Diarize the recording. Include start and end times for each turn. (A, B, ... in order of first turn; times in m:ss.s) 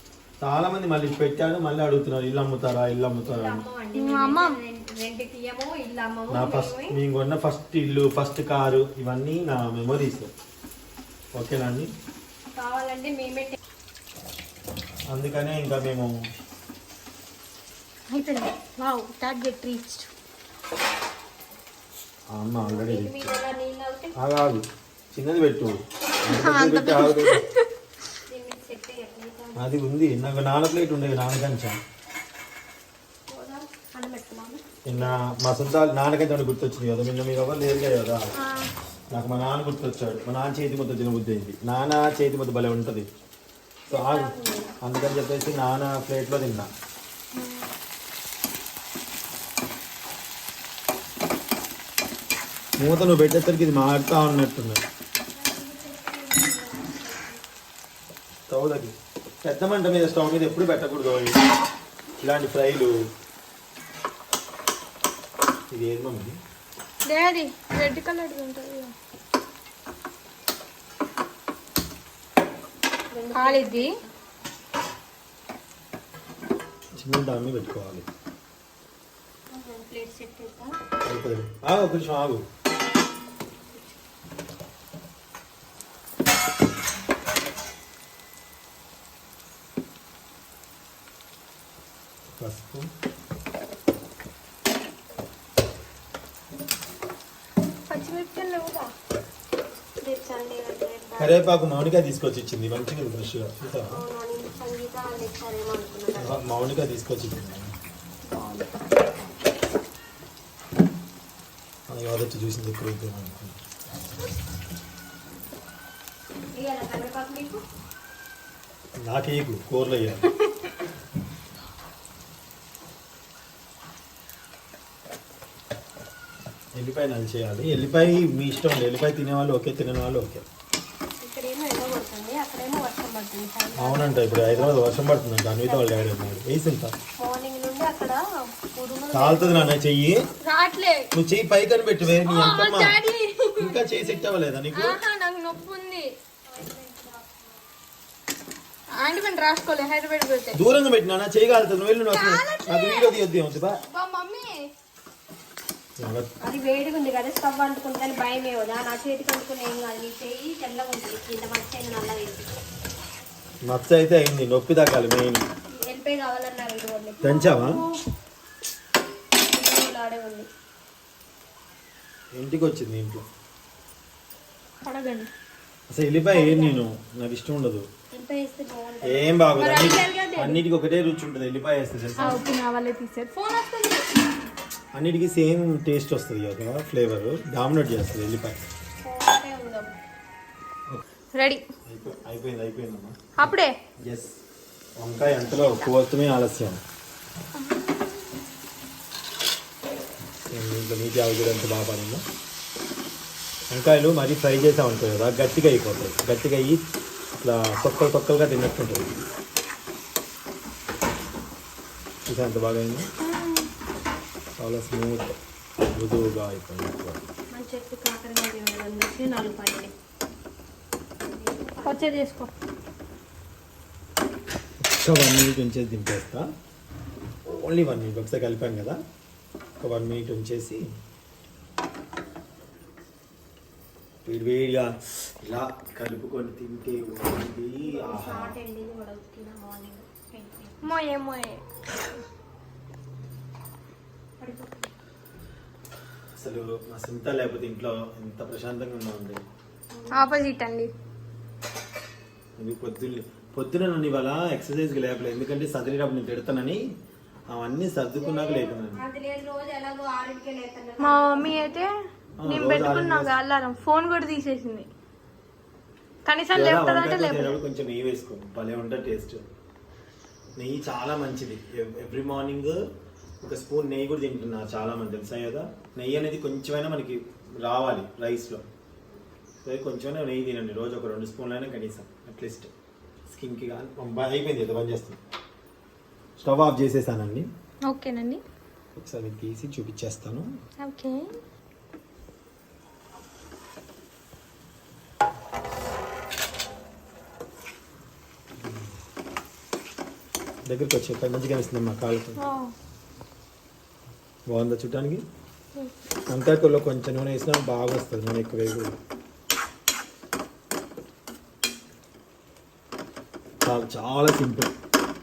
0:00.4-0:03.6 A
0:03.2-0:07.0 B
0:03.9-0:04.6 C
0:06.3-0:10.3 A
0:11.3-0:11.9 A
0:12.5-0:13.6 B
0:15.1-0:16.1 A
0:18.1-0:20.1 C
0:22.3-0:23.3 A
0:22.6-0:24.1 B
0:24.2-0:27.4 A
0:26.3-0:27.6 C
0:28.3-0:29.7 B
0:29.6-0:31.8 A
0:33.3-0:35.2 B
0:34.8-0:38.2 A
0:39.1-0:43.1 A
0:43.9-0:44.7 B
0:43.9-0:46.7 A
0:47.4-0:47.7 C
0:52.8-0:54.8 A
0:55.3-0:57.4 B
0:58.5-1:01.4 A
1:02.2-1:02.9 A
1:05.7-1:06.4 A
1:07.0-1:08.9 C
1:13.1-1:14.1 B
1:13.3-1:14.0 C
1:17.0-1:18.1 A
1:19.5-1:20.7 B
1:21.0-1:22.4 A
1:32.4-1:32.9 A
1:37.9-1:38.9 C
1:40.0-1:41.5 B
1:41.2-1:44.0 A
1:43.9-1:46.3 B
1:46.1-1:47.7 A
1:48.3-1:48.7 B
1:51.9-1:53.6 A
1:56.5-1:57.6 B
1:59.0-2:00.3 A
2:06.8-2:10.4 A
2:11.2-2:14.9 B
2:13.8-2:16.9 A
2:15.6-2:16.0 B
2:17.2-2:19.8 B
2:19.1-2:20.2 A
2:20.4-2:21.0 C
2:21.1-2:23.0 A
2:22.1-2:23.9 C
2:23.6-2:25.0 A
2:24.7-2:26.1 C
2:26.5-2:27.6 B
2:28.9-2:30.6 C
2:30.5-2:33.8 A
2:32.1-2:33.2 C
2:33.9-2:34.6 C
2:36.0-2:36.3 A
2:36.4-2:42.5 B
2:43.6-2:45.4 A
2:45.7-2:47.4 B
2:47.2-2:47.7 A
2:47.4-2:47.8 C
2:49.5-2:50.5 B
2:52.3-2:53.2 A
2:54.8-2:55.3 C
2:55.9-2:57.9 A
2:56.3-2:56.8 B
2:58.1-2:59.3 B
2:59.0-3:02.4 A
2:59.6-3:00.5 C
3:02.2-3:04.1 C
3:05.0-3:08.6 A
3:09.0-3:09.9 B
3:11.4-3:11.6 C
3:11.8-3:13.4 A
3:13.4-3:13.7 C
3:14.0-3:14.3 A
3:15.0-3:16.8 A
3:15.6-3:15.9 C
3:17.6-3:18.2 C
3:20.5-3:22.2 A
3:23.7-3:26.8 A
3:27.4-3:29.1 A
3:32.3-3:33.1 A
3:33.2-3:33.7 C
3:34.6-3:35.3 A
3:35.9-3:37.2 A
3:37.5-3:39.9 B
3:41.3-3:42.1 B
3:41.8-3:42.5 C
3:44.8-3:46.5 A
3:47.5-3:49.0 A
3:49.8-3:50.8 A
3:54.2-3:58.5 A
3:57.8-4:00.8 B
4:00.8-4:01.6 C
4:04.4-4:04.7 B
4:06.4-4:09.4 A
4:09.9-4:10.3 B
4:10.1-4:10.9 C
4:12.6-4:16.8 A
4:17.5-4:19.0 A
4:18.1-4:21.8 B
4:21.0-4:21.9 C
4:22.4-4:23.3 A
4:22.4-4:24.9 C
4:26.2-4:27.6 C
4:26.5-4:29.4 A
4:30.6-4:32.8 A
4:33.4-4:38.6 A
4:39.6-4:42.7 A
4:43.3-4:45.2 A
4:46.4-4:47.5 A
4:47.8-4:48.4 C
4:49.0-4:50.5 A
4:50.8-4:51.3 C
4:58.6-4:58.9 A
5:00.6-5:02.4 A
5:02.4-5:02.7 C
5:04.5-5:05.2 A
5:06.3-5:08.9 A
5:13.6-5:14.7 A